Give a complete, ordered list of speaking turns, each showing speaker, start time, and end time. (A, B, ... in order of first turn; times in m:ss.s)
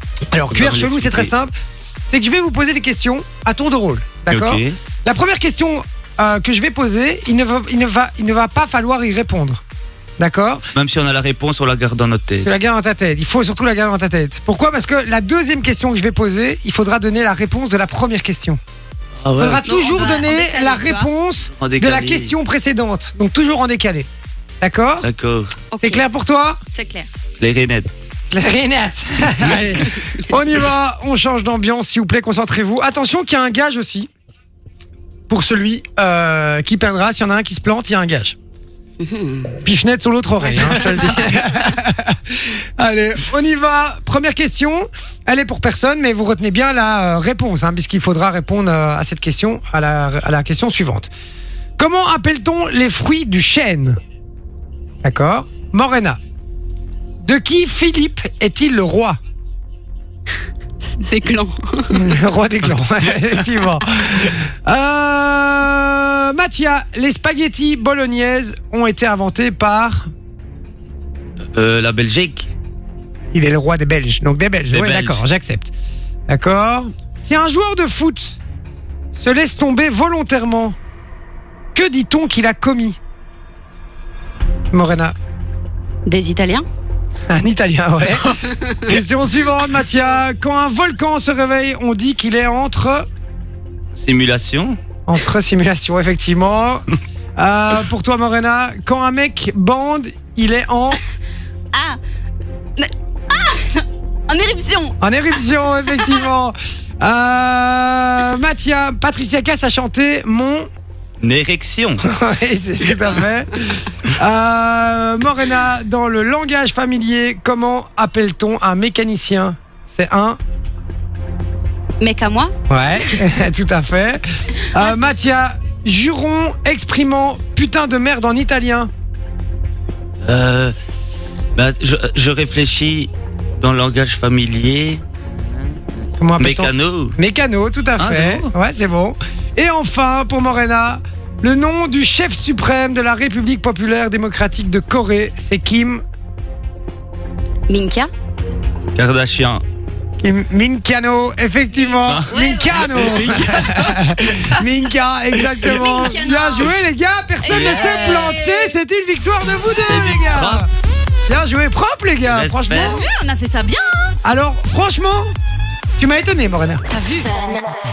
0:00.3-0:01.5 A
0:00.5-0:01.3 B
0:02.1-0:09.6 A
0:04.3-0:04.8 B
0:10.2-0:10.6 A
0:10.7-0:12.5 B
0:12.4-0:18.6 A
0:19.2-0:19.7 B
0:19.4-0:24.1 A
0:19.6-0:21.1 C
0:21.5-0:22.3 B
0:24.6-0:25.1 A
0:25.0-0:25.5 B
0:25.7-0:26.0 C
0:25.8-0:26.6 A
0:26.7-0:27.1 C
0:27.4-0:27.9 B
0:28.3-0:34.1 A
0:35.3-0:38.4 A
0:39.0-0:39.5 C
0:39.6-0:51.1 A
0:51.8-0:54.0 A
0:55.0-0:56.2 A
0:57.2-0:59.2 A
1:01.0-1:02.1 C
1:01.9-1:10.1 A
1:11.5-1:12.5 B
1:13.3-1:15.7 A
1:14.7-1:15.2 B
1:16.3-1:18.4 A
1:19.1-1:20.8 A
1:21.7-1:23.0 A
1:24.7-1:25.1 A
1:26.0-1:26.6 C
1:27.3-1:33.0 A
1:33.9-1:34.8 B
1:35.1-1:36.8 A
1:37.4-1:41.0 A
1:41.7-1:42.0 C
1:42.8-1:45.0 C
1:45.0-1:50.6 A
1:51.2-1:52.0 B
1:52.0-1:53.5 A
1:54.0-2:00.4 A
2:02.0-2:02.5 C
2:02.7-2:08.9 A
2:10.2-2:10.7 B
2:11.6-2:17.1 B
2:16.2-2:26.0 A
2:18.0-2:18.5 B
2:27.7-2:28.1 C
2:28.9-2:29.6 B
2:30.2-2:40.7 A
2:32.0-2:33.6 B
2:32.3-2:34.3 C
2:35.6-2:36.7 C
2:37.4-2:38.7 C
2:37.5-2:38.4 B
2:39.8-2:40.6 B
2:41.3-2:43.0 A
2:42.2-2:43.0 B
2:42.8-2:44.1 C
2:44.2-2:45.3 A
2:46.0-2:46.8 A
2:46.9-2:47.6 C